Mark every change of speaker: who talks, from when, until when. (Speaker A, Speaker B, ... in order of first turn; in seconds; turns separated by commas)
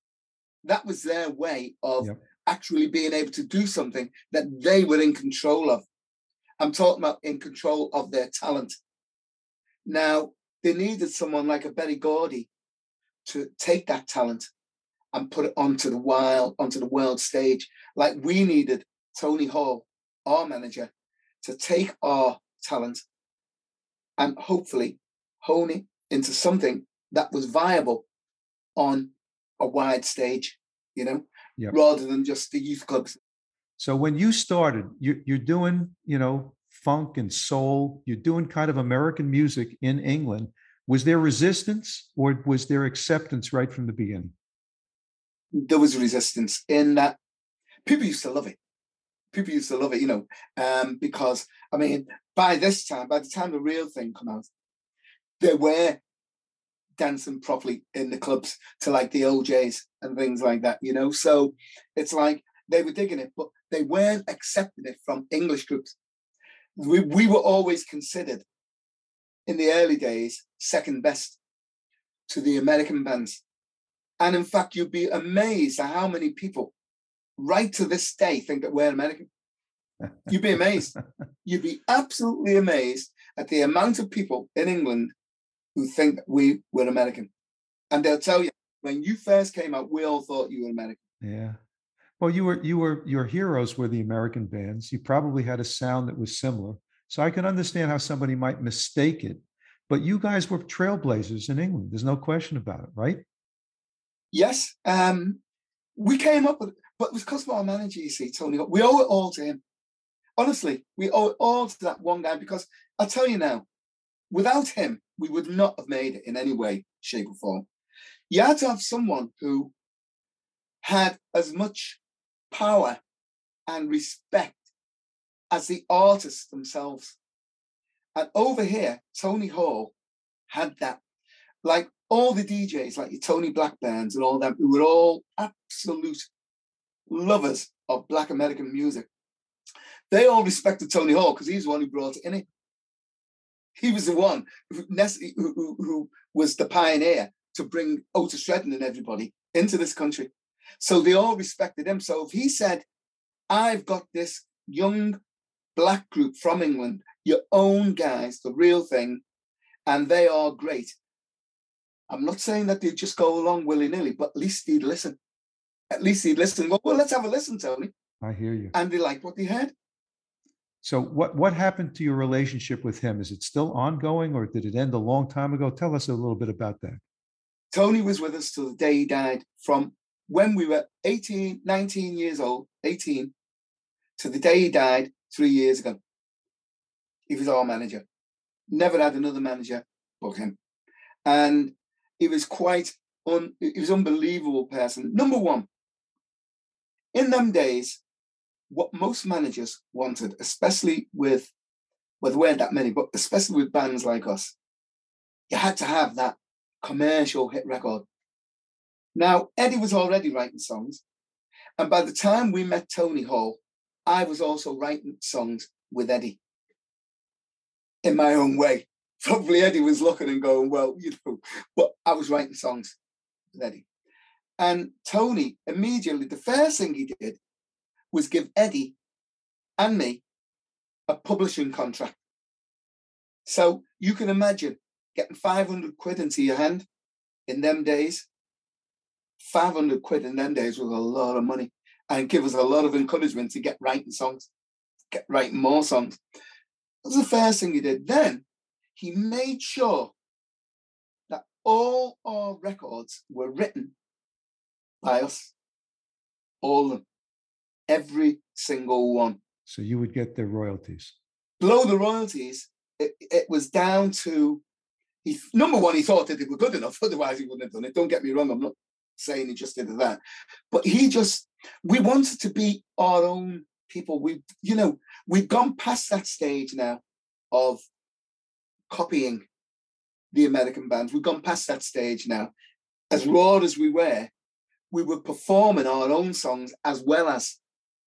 Speaker A: 0.6-5.8, Speaker A: 6.6-8.8, Speaker A: 9.8-12.5, Speaker A: 13.2-14.5, Speaker A: 15.1-20.9, Speaker A: 21.4-23.0, Speaker A: 24.2-28.0, Speaker A: 28.8-33.2, Speaker B: 33.8-44.3, Speaker A: 45.5-47.2, Speaker A: 47.8-48.6, Speaker A: 49.3-54.5, Speaker A: 55.4-56.0, Speaker A: 57.0-65.9, Speaker A: 66.8-68.4, Speaker A: 69.5-71.4, Speaker A: 72.3-73.4, Speaker A: 74.2-76.7, Speaker A: 77.4-79.3, Speaker A: 80.3-85.1, Speaker A: 85.7-87.3, Speaker A: 87.9-91.0, Speaker B: 91.2-91.6, Speaker B: 92.2-103.2, Speaker A: 104.3-105.4, Speaker A: 106.0-109.6, Speaker A: 110.4-113.7, Speaker A: 114.3-117.7, Speaker A: 118.3-119.7, Speaker A: 120.8-122.0, Speaker A: 122.5-123.0, Speaker A: 123.7-124.6, Speaker A: 125.5-127.2, Speaker A: 128.1-129.9, Speaker A: 130.5-131.0, Speaker A: 131.6-136.3, Speaker A: 137.1-139.1, Speaker A: 140.1-142.4, Speaker A: 143.8-152.8, Speaker A: 153.5-155.2, Speaker A: 155.8-159.2, Speaker A: 159.8-160.9, Speaker A: 162.1-165.2, Speaker A: 165.9-167.9, Speaker B: 168.2-168.7, Speaker A: 168.7-169.7, Speaker B: 170.8-177.0, Speaker A: 177.7-183.3, Speaker A: 184.2-186.0, Speaker A: 187.3-188.0, Speaker A: 188.7-190.6, Speaker A: 191.2-195.7, Speaker A: 197.1-198.0, Speaker A: 198.7-201.5, Speaker A: 202.2-204.5, Speaker A: 205.5-208.0, Speaker A: 209.1-211.0, Speaker A: 211.8-216.4, Speaker A: 218.0-222.9, Speaker A: 223.5-223.8, Speaker A: 224.6-227.4, Speaker A: 228.1-228.9, Speaker A: 229.8-230.2, Speaker A: 231.1-232.2, Speaker A: 233.4-236.8, Speaker A: 237.5-238.2, Speaker A: 239.4-244.5, Speaker A: 245.1-246.2, Speaker A: 247.0-248.4, Speaker A: 248.9-250.1, Speaker A: 251.3-253.9, Speaker A: 255.0-255.5, Speaker A: 256.6-257.0, Speaker A: 257.9-259.4, Speaker B: 259.7-261.1, Speaker A: 261.6-264.6, Speaker A: 265.2-277.0, Speaker A: 277.5-277.8, Speaker A: 278.9-279.4, Speaker A: 280.3-282.5, Speaker A: 283.1-284.3, Speaker A: 284.9-287.6